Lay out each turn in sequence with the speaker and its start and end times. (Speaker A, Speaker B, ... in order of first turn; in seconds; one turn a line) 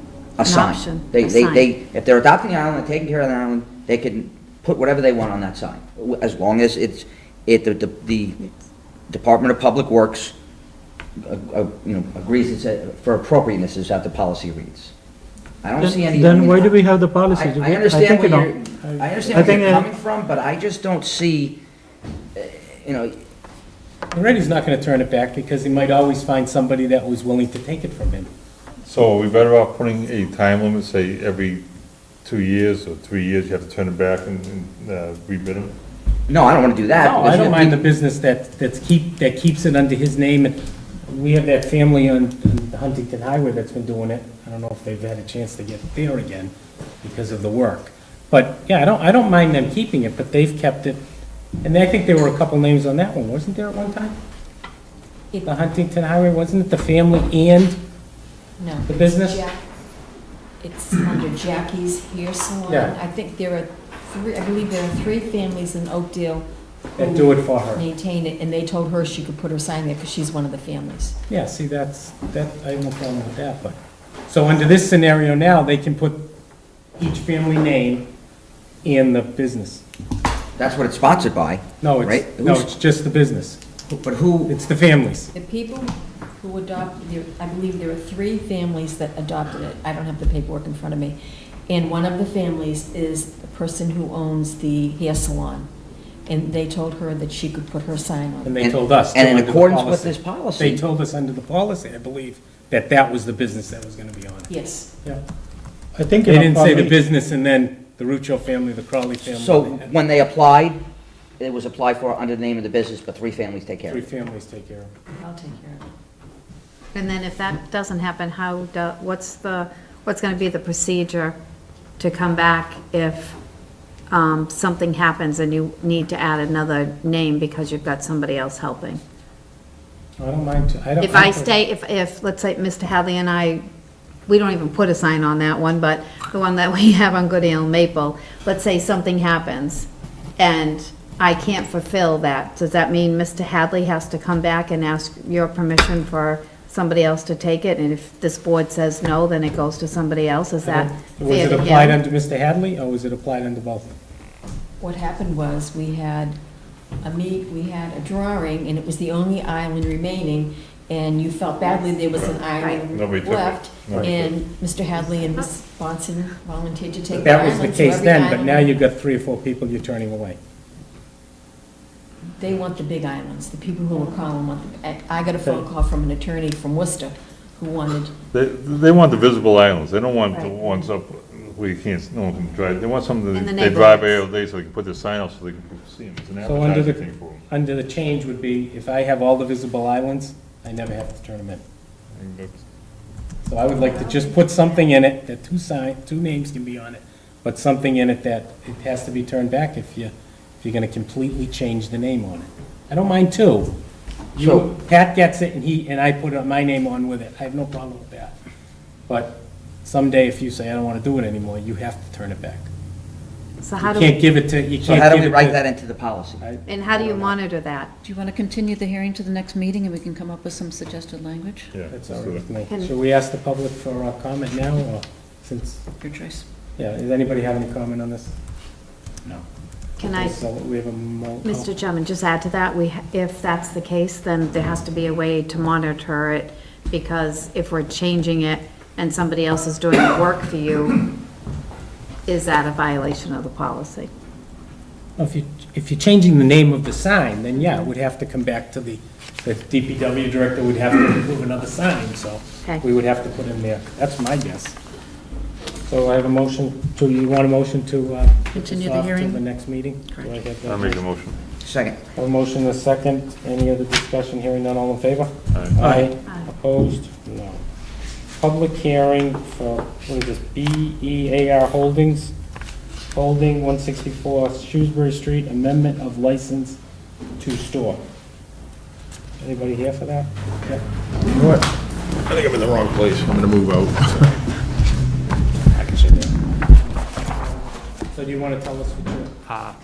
Speaker A: 0.4-8.4
Speaker B: 0.5-1.7
Speaker A: 9.1-10.3
Speaker A: 11.2-14.9
Speaker A: 15.6-21.6
Speaker C: 15.8-18.5
Speaker D: 18.8-19.5
Speaker C: 19.3-19.9
Speaker A: 22.4-23.2
Speaker D: 24.1-28.3
Speaker E: 28.9-31.6
Speaker E: 32.2-35.7
Speaker A: 36.3-37.8
Speaker D: 37.0-51.0
Speaker D: 51.6-54.2
Speaker D: 55.4-57.8
Speaker F: 58.6-59.6
Speaker D: 58.9-59.4
Speaker F: 60.6-71.2
Speaker D: 62.7-62.9
Speaker D: 67.0-67.8
Speaker D: 71.3-73.8
Speaker D: 74.3-76.3
Speaker D: 77.0-78.1
Speaker D: 78.8-79.8
Speaker A: 80.6-82.7
Speaker D: 81.8-83.6
Speaker A: 83.9-84.5
Speaker D: 84.5-85.3
Speaker F: 85.3-95.7
Speaker F: 96.3-98.6
Speaker D: 98.4-105.2
Speaker A: 98.6-100.8
Speaker F: 104.5-104.9
Speaker C: 106.0-106.9
Speaker D: 106.2-109.9
Speaker A: 109.3-110.8
Speaker A: 111.4-114.0
Speaker D: 113.9-114.9
Speaker F: 115.2-115.9
Speaker B: 116.9-121.3
Speaker B: 122.0-123.4
Speaker B: 124.1-129.0
Speaker D: 130.2-131.5
Speaker B: 131.0-133.6
Speaker B: 134.3-152.0
Speaker D: 150.6-153.9
Speaker F: 154.8-156.4
Speaker F: 157.0-168.7
Speaker B: 161.6-162.0
Speaker E: 162.1-164.3
Speaker B: 162.5-162.8
Speaker D: 167.1-170.4
Speaker F: 172.3-178.1
Speaker E: 178.3-187.4
Speaker B: 180.3-180.8
Speaker B: 183.3-184.2
Speaker D: 186.4-191.6
Speaker E: 192.1-192.6
Speaker D: 193.4-203.7
Speaker D: 204.3-208.3
Speaker A: 204.4-204.7
Speaker D: 209.1-212.7
Speaker B: 213.6-214.2
Speaker D: 213.8-215.6
Speaker A: 214.8-216.4
Speaker D: 216.4-217.4
Speaker B: 216.7-217.9
Speaker G: 218.0-221.7
Speaker E: 221.7-222.4
Speaker D: 221.9-225.8
Speaker B: 222.7-222.9
Speaker G: 226.0-226.4
Speaker D: 226.8-228.3
Speaker B: 230.0-230.4
Speaker D: 230.1-231.7
Speaker B: 231.4-241.1
Speaker B: 242.2-244.1
Speaker D: 245.2-254.8
Speaker D: 255.9-261.0
Speaker G: 258.5-259.4
Speaker E: 260.6-261.4
Speaker A: 261.6-262.0
Speaker D: 262.1-267.6
Speaker E: 265.5-265.8
Speaker C: 265.8-266.0
Speaker D: 268.4-272.3
Speaker D: 273.1-276.8
Speaker D: 277.4-278.0
Speaker D: 279.4-280.8
Speaker H: 282.3-284.3
Speaker D: 285.8-286.3
Speaker D: 286.8-289.3